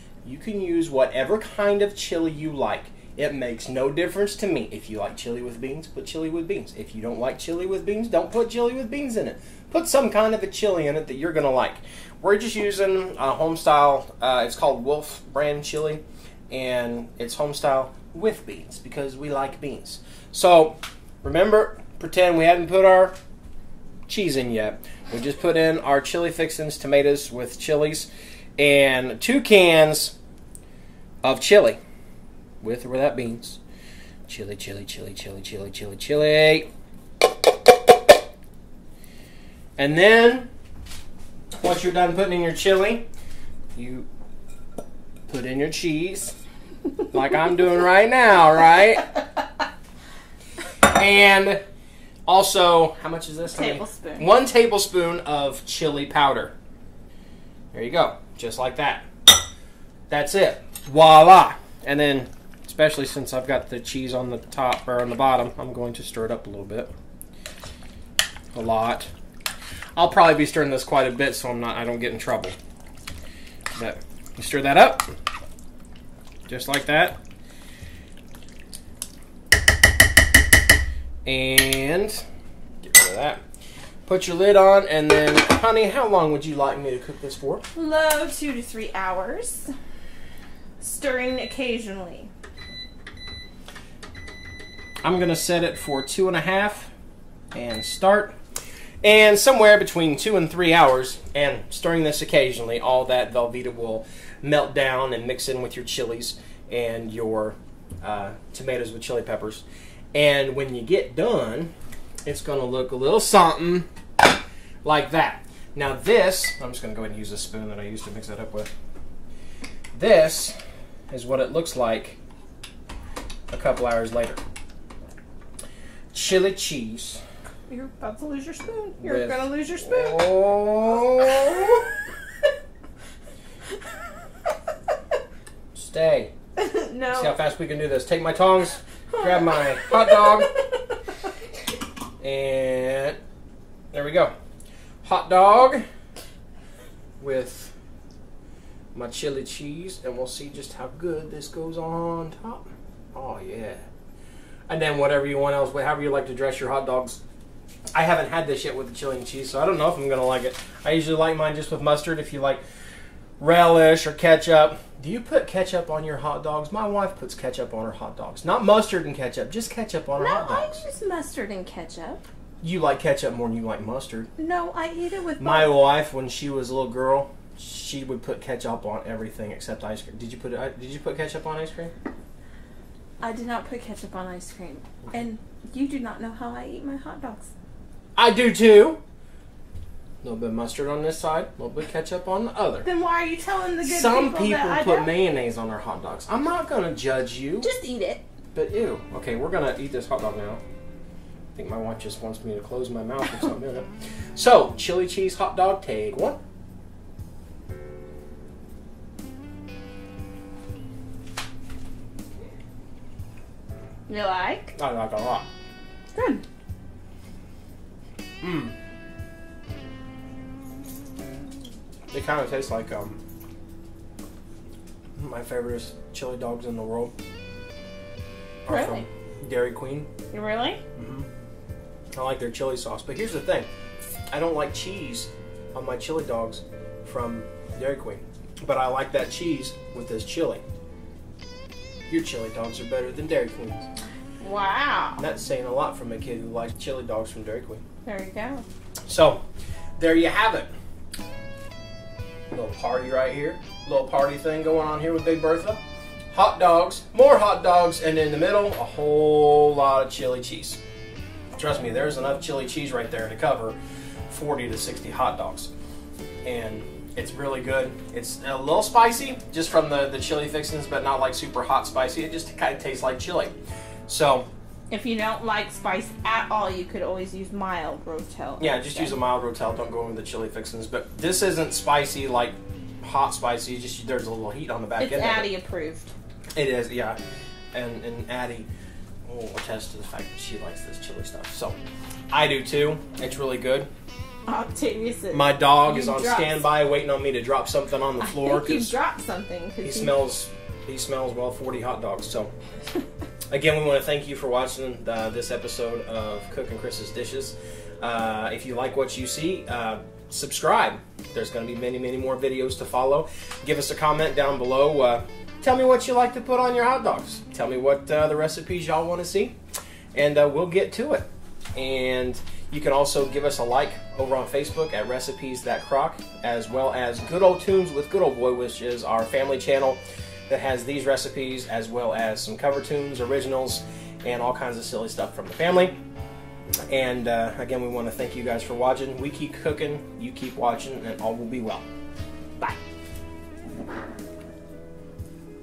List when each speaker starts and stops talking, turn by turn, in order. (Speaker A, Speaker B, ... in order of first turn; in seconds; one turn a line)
Speaker A: 0.2-23.1
Speaker A: 24.1-30.2
Speaker A: 31.2-31.8
Speaker A: 32.6-33.6
Speaker A: 34.3-36.7
Speaker A: 39.8-40.5
Speaker A: 41.6-43.1
Speaker A: 43.8-44.1
Speaker A: 45.3-46.4
Speaker A: 47.1-49.1
Speaker A: 50.8-51.6
Speaker A: 52.3-56.5
Speaker B: 53.5-54.3
Speaker A: 57.7-59.1
Speaker A: 60.1-66.9
Speaker A: 68.5-69.1
Speaker A: 70.0-72.6
Speaker A: 73.8-75.1
Speaker A: 76.5-77.2
Speaker A: 81.2-82.2
Speaker A: 82.8-83.4
Speaker A: 84.1-87.6
Speaker B: 87.8-89.7
Speaker B: 90.8-92.3
Speaker A: 95.0-96.9
Speaker A: 97.5-98.3
Speaker A: 99.0-111.7
Speaker A: 112.3-113.9
Speaker A: 114.8-118.7
Speaker A: 120.0-120.6
Speaker A: 121.1-122.2
Speaker A: 123.5-124.4
Speaker A: 126.1-127.2
Speaker B: 127.7-131.8
Speaker A: 129.0-131.8
Speaker A: 135.7-136.3
Speaker B: 136.6-137.3
Speaker A: 137.1-140.5
Speaker B: 139.1-140.6
Speaker A: 142.2-143.2
Speaker A: 143.9-144.3
Speaker A: 145.0-145.8
Speaker A: 147.2-147.7
Speaker A: 148.9-153.8
Speaker A: 154.7-157.2
Speaker A: 157.9-162.6
Speaker A: 163.4-170.8
Speaker B: 170.2-172.2
Speaker A: 172.6-174.3
Speaker B: 174.4-175.8
Speaker A: 175.4-181.9
Speaker B: 183.2-187.5
Speaker A: 188.2-189.0
Speaker A: 190.2-192.9
Speaker B: 192.8-195.1
Speaker A: 193.8-197.7
Speaker B: 197.6-198.2
Speaker A: 198.6-200.6
Speaker A: 201.6-206.4
Speaker B: 214.1-214.8
Speaker A: 214.8-215.5
Speaker B: 216.2-216.4
Speaker A: 218.4-218.7
Speaker A: 222.1-223.2
Speaker A: 225.2-227.1
Speaker A: 228.7-230.1
Speaker B: 228.7-229.1
Speaker B: 230.3-230.8
Speaker A: 231.0-231.3
Speaker A: 232.2-233.7
Speaker A: 234.3-240.6
Speaker A: 242.1-243.8
Speaker B: 244.4-245.2
Speaker A: 245.2-247.8
Speaker B: 248.1-248.7
Speaker A: 249.1-249.4
Speaker A: 250.0-250.7
Speaker A: 252.5-260.8
Speaker A: 261.6-263.8
Speaker A: 264.3-265.7
Speaker A: 266.4-273.5
Speaker A: 274.1-274.5
Speaker B: 274.9-279.1
Speaker A: 278.6-285.5
Speaker B: 285.0-286.1
Speaker A: 286.6-287.2
Speaker A: 287.7-288.7
Speaker A: 289.3-291.8
Speaker A: 292.3-293.9
Speaker B: 294.5-296.7
Speaker A: 295.3-298.9
Speaker B: 298.2-300.1
Speaker A: 299.8-302.5
Speaker A: 303.5-319.6
Speaker A: 320.1-336.0
Speaker A: 336.9-341.9